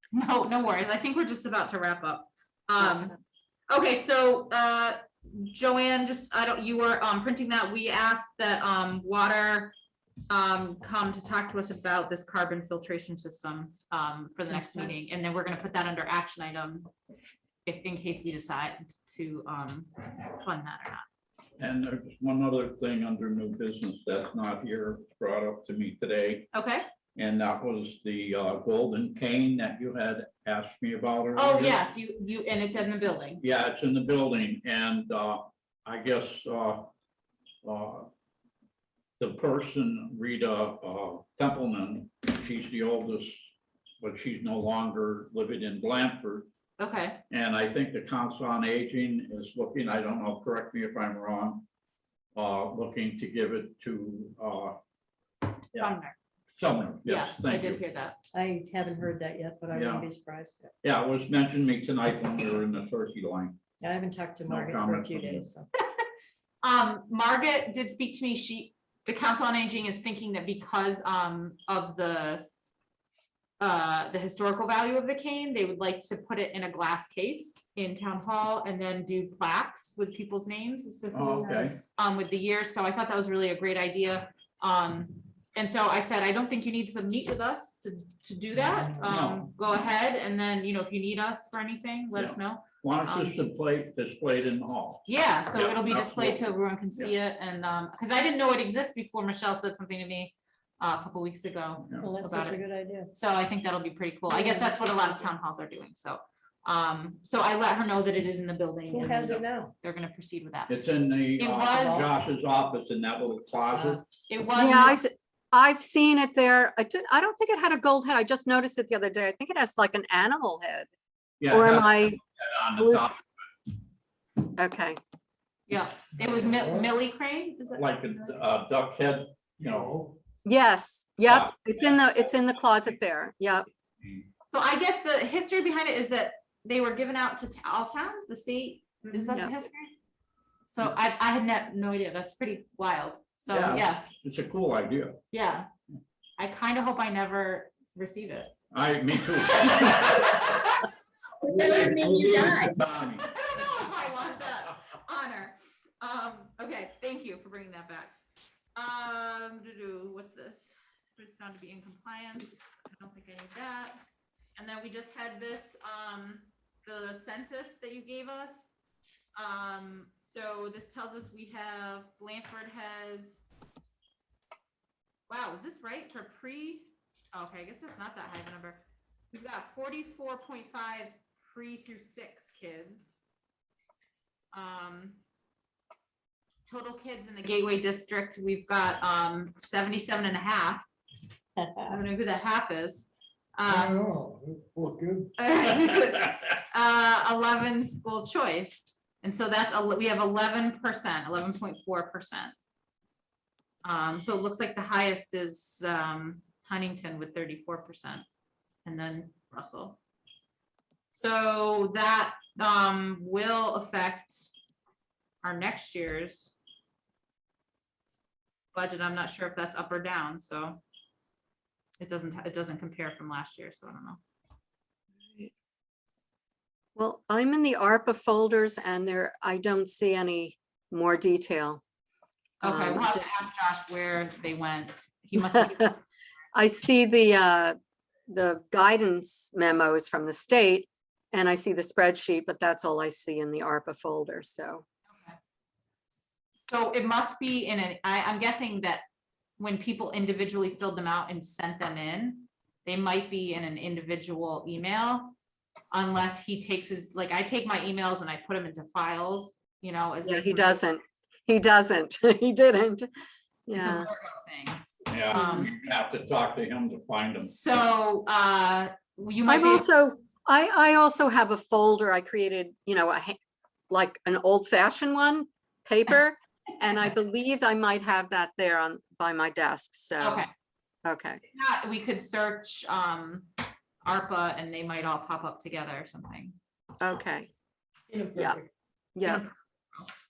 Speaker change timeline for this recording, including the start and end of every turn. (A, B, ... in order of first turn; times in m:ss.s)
0:00.1-0:03.1 A
0:03.7-0:09.7 A
0:10.3-0:16.9 A
0:17.7-0:21.0 A
0:21.6-0:26.5 B
0:26.5-0:26.8 A
0:27.2-0:31.8 B
0:31.4-0:33.4 A
0:33.4-0:36.9 B
0:37.6-0:38.1 B
0:39.2-0:43.5 B
0:44.0-0:46.5 B
0:46.8-0:47.2 A
0:47.3-0:51.7 B
0:52.4-0:54.8 B
0:55.8-0:56.2 A
0:56.6-0:57.8 B
0:57.0-0:58.2 A
0:58.3-1:00.7 C
0:59.7-1:00.1 B
1:00.8-1:03.6 B
1:03.8-1:05.7 C
1:04.5-1:05.5 B
1:06.6-1:12.5 A
1:13.6-1:33.4 A
1:21.1-1:21.8 B
1:28.6-1:28.9 C
1:29.0-1:29.5 B
1:32.1-1:36.4 B
1:35.1-1:42.6 A
1:42.0-1:43.1 C
1:43.1-1:50.7 A
1:44.3-1:45.3 C
1:48.9-1:49.7 C
1:50.7-1:54.0 B
1:51.4-1:52.1 A
1:54.3-1:55.0 A
1:54.6-2:00.9 D
2:01.4-2:03.2 B
2:01.5-2:02.2 D
2:02.8-2:03.1 D
2:04.4-2:05.0 D
2:05.7-2:08.2 A
2:06.5-2:06.9 E
2:07.8-2:09.9 B
2:09.6-2:10.1 E
2:10.4-2:13.7 D
2:11.2-2:12.5 B
2:14.5-2:19.9 A
2:20.7-2:24.1 A
2:23.5-2:25.2 B
2:25.3-2:25.7 A
2:26.4-2:28.6 A
2:28.7-2:30.7 B
2:29.3-2:30.9 A
2:31.4-2:38.2 A
2:31.5-2:33.3 B
2:38.8-2:44.0 A
2:44.6-2:48.7 A
2:49.4-2:53.4 A
2:55.3-3:03.2 A
3:04.5-3:05.2 A
3:06.7-3:10.8 A
3:11.6-3:12.0 C
3:11.8-3:14.0 A
3:13.7-3:15.3 E
3:15.4-3:22.5 A
3:23.8-3:28.2 A
3:28.8-3:30.0 A
3:31.1-3:34.5 A
3:35.4-3:36.6 A
3:38.7-3:40.8 A
3:42.0-3:44.2 A
3:47.0-3:51.8 D
3:52.6-3:56.0 A
3:52.6-3:53.2 D
3:56.5-3:57.8 D
3:58.3-4:04.8 D
4:06.7-4:09.0 A
4:09.6-4:15.4 A
4:15.9-4:20.8 A
4:20.2-4:23.1 D
4:23.7-4:24.1 D
4:23.8-4:25.7 A
4:25.1-4:27.5 B
4:27.4-4:29.9 A
4:29.5-4:33.4 D
4:33.9-4:40.5 D
4:40.2-4:40.5 A
4:41.0-4:41.4 D
4:41.5-4:43.5 A
4:44.0-4:46.6 A
4:47.0-4:47.5 D
4:48.1-4:48.7 C
4:48.3-4:48.6 D
4:49.2-4:49.4 D
4:49.2-4:50.1 A